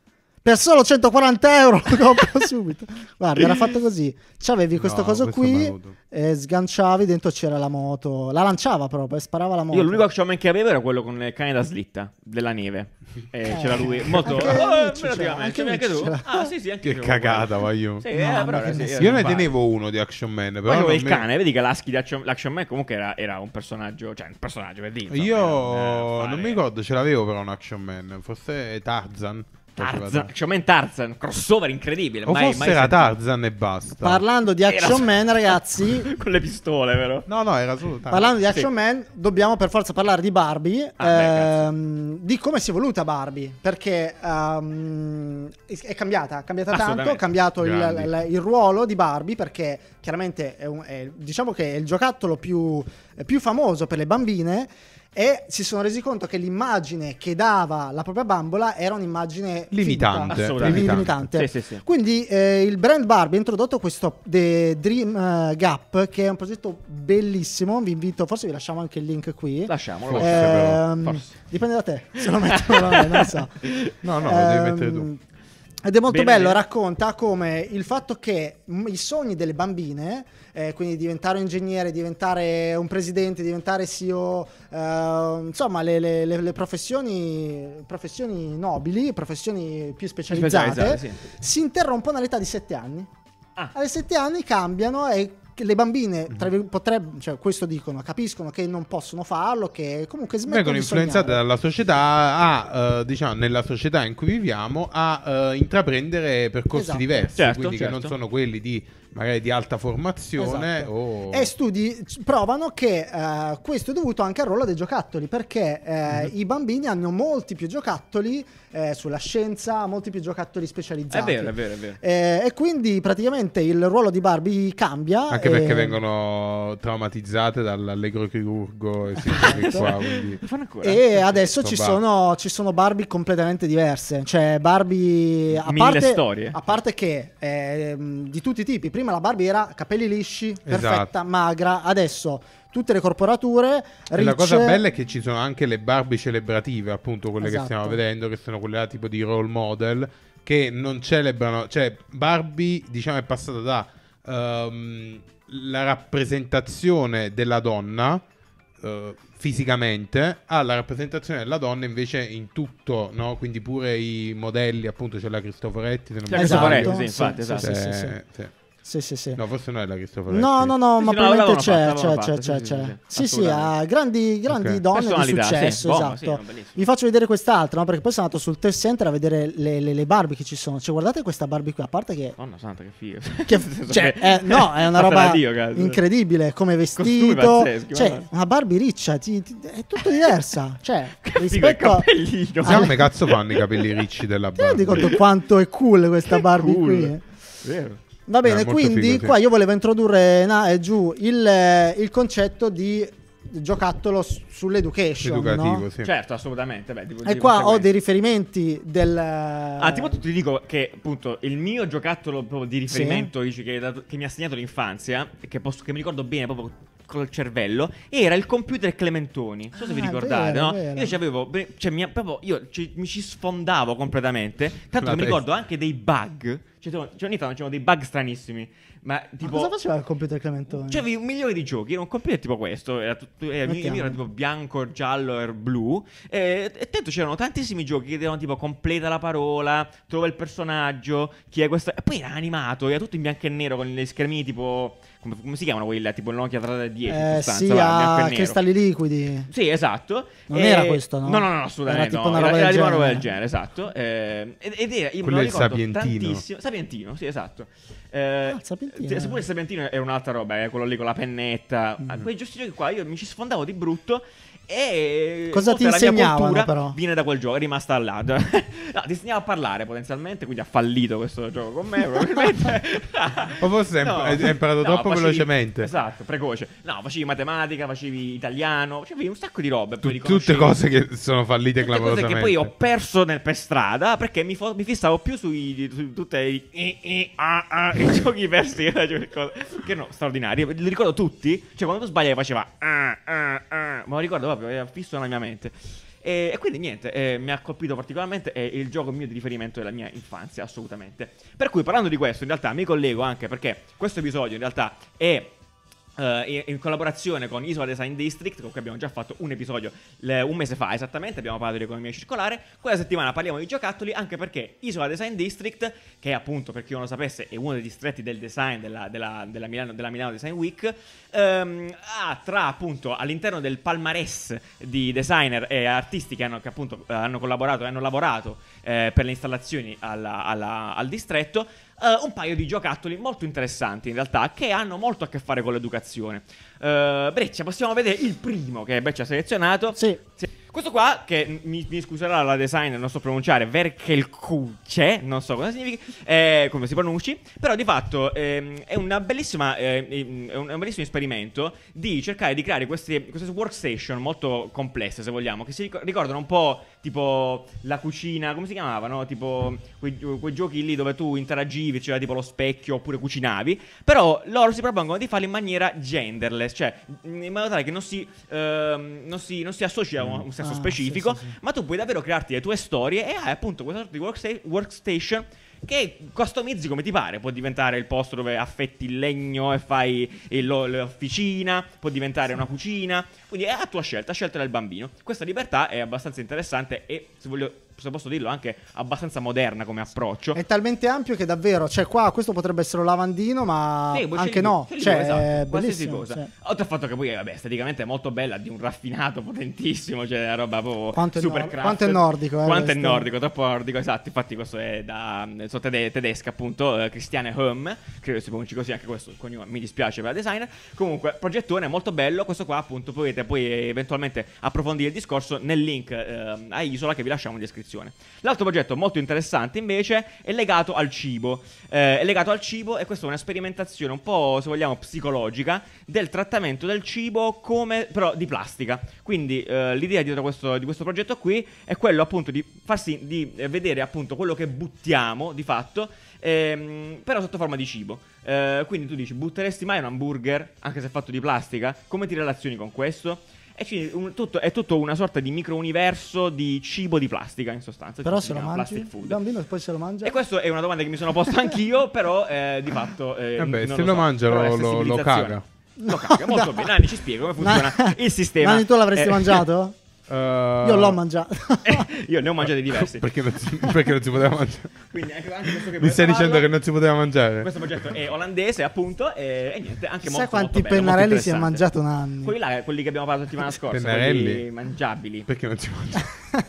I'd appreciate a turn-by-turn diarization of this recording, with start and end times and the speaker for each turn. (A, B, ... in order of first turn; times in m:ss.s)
0:00.4-0:10.0 A
0:04.8-0:05.9 B
0:09.7-0:19.5 C
0:13.5-0:16.5 A
0:16.8-0:18.0 B
0:18.1-0:19.4 A
0:19.0-0:21.2 B
0:20.6-0:26.6 C
0:25.1-0:30.3 B
0:29.8-0:33.1 C
0:32.2-0:34.2 B
0:34.0-0:36.1 A
0:34.7-0:37.3 C
0:37.3-0:38.3 B
0:38.1-1:13.7 A
0:41.0-0:41.6 C
0:46.7-0:47.2 C
0:47.6-0:48.1 B
0:59.7-1:01.2 B
1:00.3-1:01.8 C
1:09.7-1:11.4 C
1:10.1-1:10.8 B
1:12.2-1:14.0 C
1:14.0-1:15.1 B
1:14.2-1:15.2 A
1:15.8-1:33.1 A
1:16.1-1:16.6 C
1:30.3-1:31.2 C
1:33.7-1:41.4 A
1:40.4-1:51.5 B
1:46.7-1:47.3 A
1:47.4-1:48.1 C
1:50.4-2:06.0 A
2:01.1-2:02.0 C
2:05.3-2:10.4 B
2:09.2-2:09.9 A
2:09.3-2:11.4 C
2:10.8-2:24.8 A
2:11.5-2:12.0 B
2:15.6-2:16.6 C
2:20.6-2:21.1 B
2:24.1-2:38.2 B
2:27.4-2:28.0 A
2:38.8-2:47.0 B
2:46.3-2:47.7 C
2:46.3-2:48.2 A
2:47.6-2:48.5 B
2:48.8-2:49.4 A
2:49.4-2:50.7 B
2:50.3-3:02.4 A
2:51.0-2:53.7 C
2:54.5-2:54.8 B
2:54.9-2:56.8 C
3:02.4-3:06.0 C
3:03.5-3:12.1 A
3:07.0-3:08.3 C
3:10.0-3:10.3 C
3:11.2-3:14.0 C
3:12.6-3:13.0 A
3:12.6-3:15.2 B
3:14.6-3:17.2 A
3:14.9-3:15.2 C
3:16.3-3:17.1 C
3:17.6-3:18.0 C
3:18.3-3:25.8 A
3:18.4-3:19.3 B
3:25.2-3:26.1 B
3:26.0-3:27.9 C
3:27.2-3:30.2 A
3:29.8-3:49.7 C
3:32.9-3:33.3 A
3:39.8-3:41.2 A
3:45.0-3:45.4 B
3:49.4-3:51.0 A
3:50.7-4:08.6 C
3:53.6-3:54.2 A
4:07.1-4:09.5 A
4:09.5-4:40.8 C
4:10.5-4:13.2 A
4:15.2-4:16.4 B
4:18.5-4:19.4 A
4:25.5-4:27.0 A
4:33.6-4:35.9 B
4:40.0-4:42.7 B
4:41.8-5:05.6 C
5:06.2-6:30.6 C
6:10.2-6:10.4 B
6:10.6-6:11.5 A
6:30.5-6:36.5 A
6:34.1-7:29.4 C
6:41.1-6:43.3 A
7:28.2-7:30.4 A
7:30.2-7:39.6 C
7:33.6-7:35.6 B
7:36.0-7:36.9 A
7:37.6-7:40.0 A
7:40.3-7:41.2 B
7:40.8-7:42.1 A
7:41.8-7:43.3 C
7:42.7-7:45.0 B
7:45.1-7:46.7 C
7:45.6-7:48.2 B
7:47.6-7:51.8 C
7:50.2-7:52.5 A
7:52.4-7:55.5 C
7:53.8-7:54.6 B
7:55.5-7:56.5 B